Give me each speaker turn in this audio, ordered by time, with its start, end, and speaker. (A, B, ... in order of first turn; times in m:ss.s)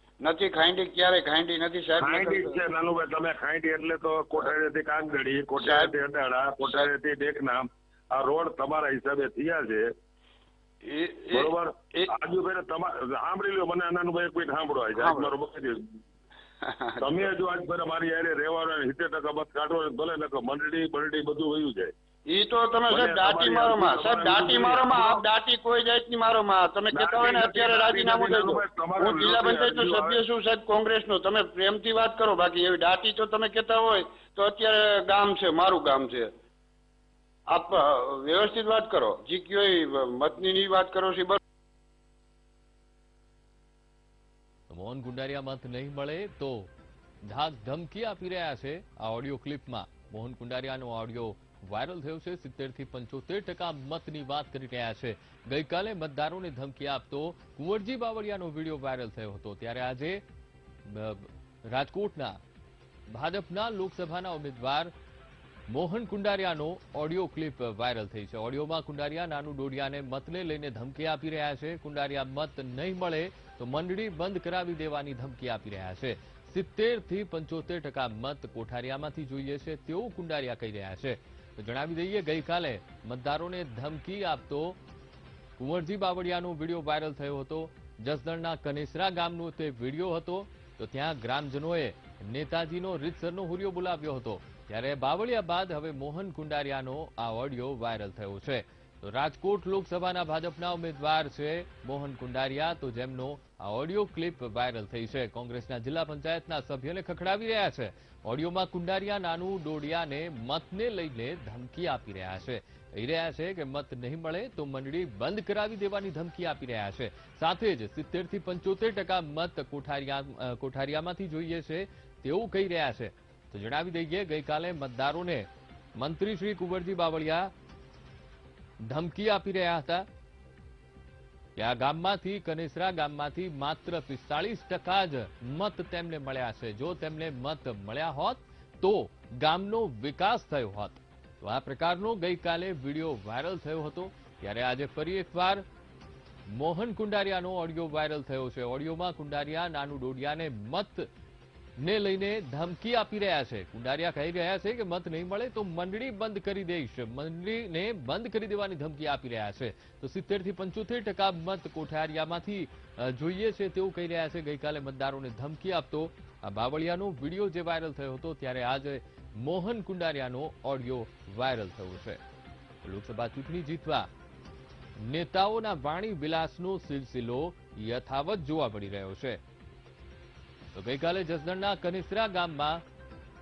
0:00.2-0:02.6 A
0:02.0-0:09.9 B
0:05.6-0:05.9 A
0:10.8-0:12.1 A
0:11.3-0:15.8 B
0:15.0-0:15.3 A
0:16.6-0:17.2 A
0:17.0-0:21.9 B
0:22.3-0:36.3 A
0:22.9-0:25.2 B
0:26.9-0:30.2 B
0:37.5-0:41.4 A
0:44.7-0:46.7 C
0:47.3-1:00.2 C
1:00.9-1:02.4 C
1:03.1-1:04.9 C
1:05.7-1:24.8 C
1:25.6-2:07.5 C
2:08.8-2:10.1 C
2:11.6-2:25.6 C
2:26.5-2:31.1 C
2:31.8-2:52.2 C
2:52.8-2:54.1 C
2:55.0-2:59.4 C
3:00.8-3:02.8 C